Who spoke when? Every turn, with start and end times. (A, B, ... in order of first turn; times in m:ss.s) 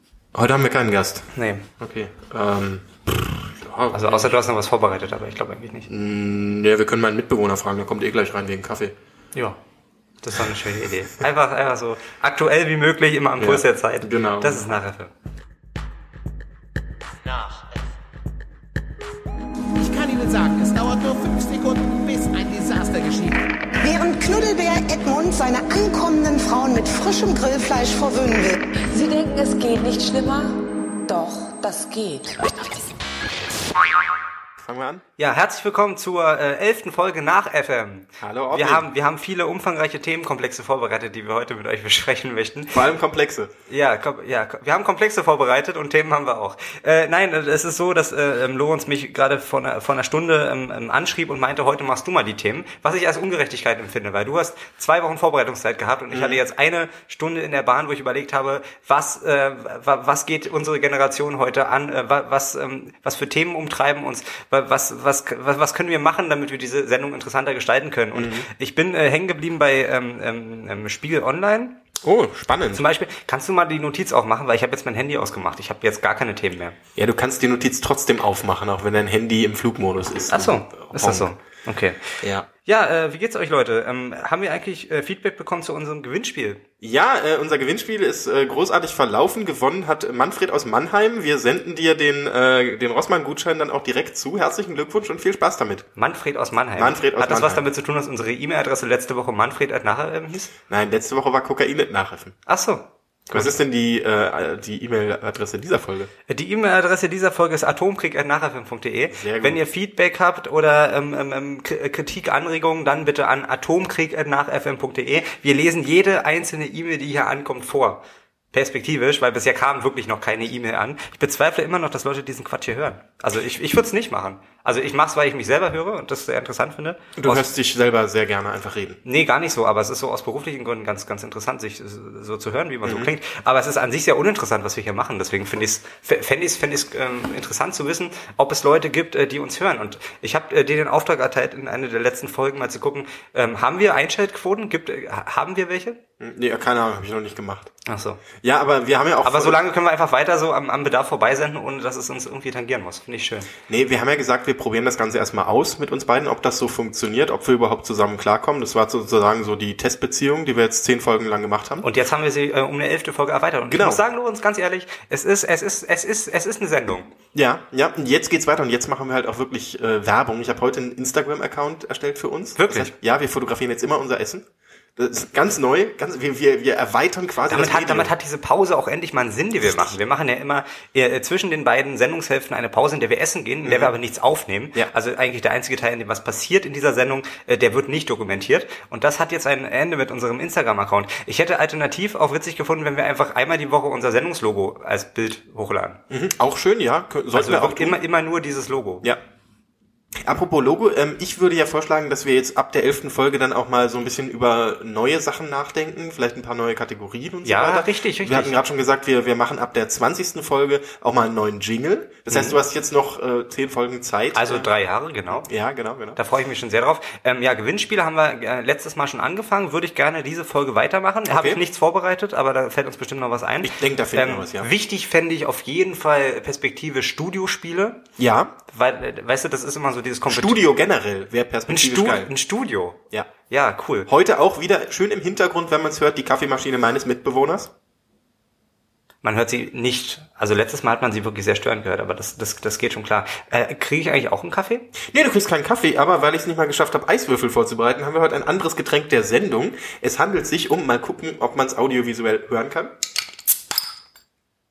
0:00.3-0:04.3 A
0:01.3-0:01.7 B
0:03.9-0:05.9 B
0:05.9-0:08.9 A
0:10.2-0:15.1 B
0:13.4-0:14.7 A
0:19.8-0:23.4 C
0:23.8-0:28.7 D
0:28.8-0:32.8 E
0:34.6-0:35.0 A
0:35.2-0:42.8 B
0:38.2-0:38.9 A
0:42.7-0:43.5 A
0:43.7-1:11.8 B
0:56.1-0:56.4 A
1:08.1-1:08.5 A
1:12.0-1:12.8 A
1:12.7-1:16.8 B
1:17.0-1:21.3 A
1:20.3-1:26.6 B
1:22.2-1:22.5 A
1:26.8-1:35.8 A
1:36.0-1:40.5 B
1:36.8-1:37.6 A
1:40.7-1:42.3 A
1:42.4-1:43.5 B
1:43.3-1:46.1 A
1:46.3-2:07.4 B
1:49.1-1:49.6 A
2:07.2-2:09.0 A
2:09.0-2:26.0 B
2:12.8-2:13.1 A
2:26.2-2:27.7 A
2:27.8-2:28.2 B
2:28.4-2:29.6 A
2:29.2-2:33.5 B
2:33.7-2:41.8 A
2:41.8-2:47.1 B
2:43.7-2:44.0 A
2:47.3-2:54.4 A
2:52.6-2:52.9 B
2:55.0-2:58.1 A
2:57.4-3:16.0 B
2:59.6-2:59.9 A
3:03.6-3:03.9 A
3:16.1-3:18.0 A
3:17.3-3:19.1 B
3:20.2-3:34.7 A
3:27.4-3:28.6 B
3:32.3-3:32.6 B
3:34.3-3:35.5 B
3:35.3-3:36.2 A
3:36.2-3:48.0 B
3:41.3-3:41.6 A
3:43.6-3:44.7 A
3:48.2-3:48.5 A
3:48.7-3:50.6 B
3:50.3-3:52.3 A
3:51.7-3:54.1 B
3:54.1-3:57.7 A
3:59.2-4:04.9 B
4:05.0-4:12.9 A